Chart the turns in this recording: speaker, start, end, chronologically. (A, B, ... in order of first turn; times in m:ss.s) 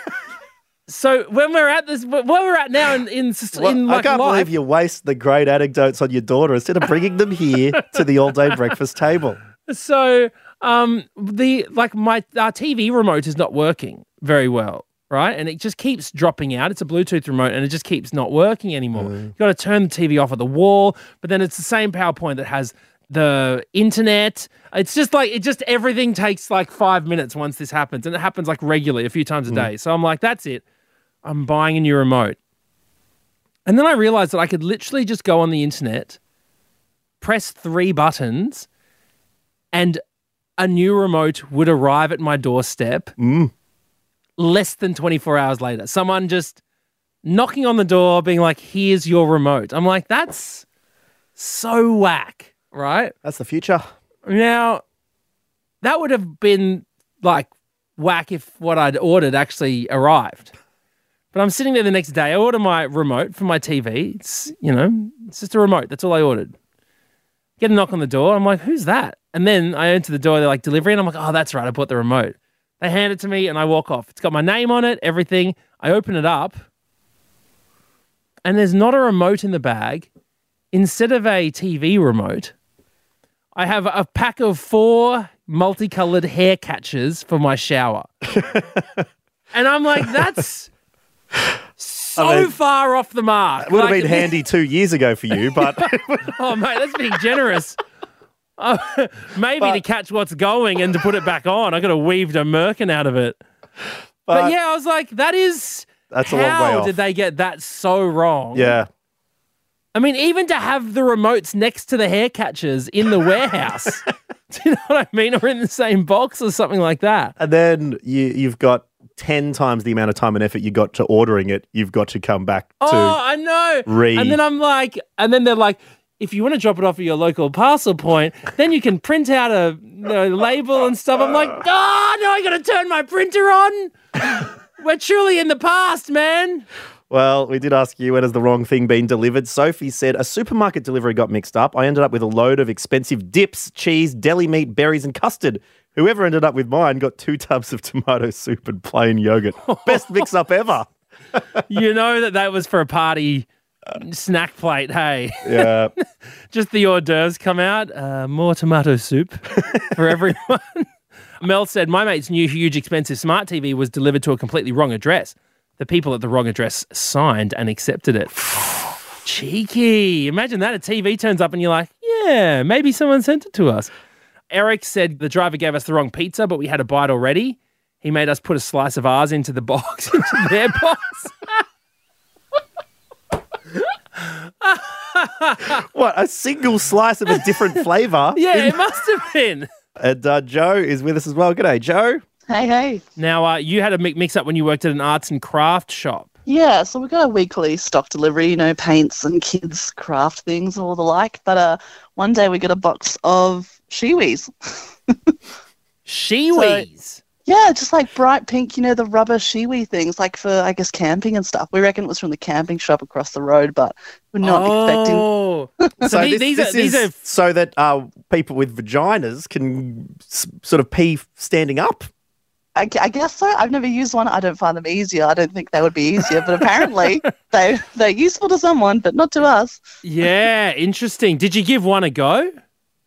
0:00.9-0:04.5 A
0:03.5-0:09.4 B
0:09.6-0:30.6 A
0:19.0-0:19.3 B
0:31.2-0:32.4 A
0:33.6-0:36.2 A
0:37.2-0:38.7 A
0:39.7-0:40.0 A
0:40.6-0:43.1 A
0:43.2-0:43.5 B
0:44.4-0:46.6 A
0:47.2-0:50.6 A
0:51.4-0:53.1 A
0:53.2-0:53.9 B
0:54.2-0:54.8 A
0:55.8-1:00.5 A
1:01.3-1:06.5 A
1:07.6-1:16.6 A
1:18.4-1:20.1 A
1:20.7-1:22.5 A
1:23.6-1:28.1 A
1:28.3-1:29.0 B
1:29.5-1:30.7 A
1:31.8-1:34.3 A
1:32.2-1:32.5 B
1:33.6-1:36.3 B
1:35.7-1:37.8 A
1:38.6-1:43.4 A
1:44.2-1:44.5 B
1:44.3-1:48.8 A
1:46.1-1:47.0 B
1:48.5-1:48.9 B
1:49.9-1:57.3 A
1:57.4-2:03.2 B
2:02.8-2:16.6 A
2:03.8-2:04.4 B
2:17.1-2:31.4 B
2:29.6-2:30.3 A
2:31.7-2:35.7 A
2:35.4-2:35.9 B
2:36.5-2:48.4 A
2:49.2-2:53.9 A
2:54.5-3:01.6 A
3:04.2-3:05.8 A
3:05.8-3:08.8 B
3:08.4-3:09.7 A
3:10.0-3:12.2 B
3:12.5-3:13.0 C
3:13.2-3:16.3 A
3:16.4-3:24.5 C
3:25.1-3:25.3 C
3:26.0-3:27.2 A
3:26.5-3:26.8 C
3:27.4-3:35.3 C
3:34.4-3:37.1 A
3:36.0-3:42.1 B
3:42.8-3:49.8 C
3:50.0-3:52.6 A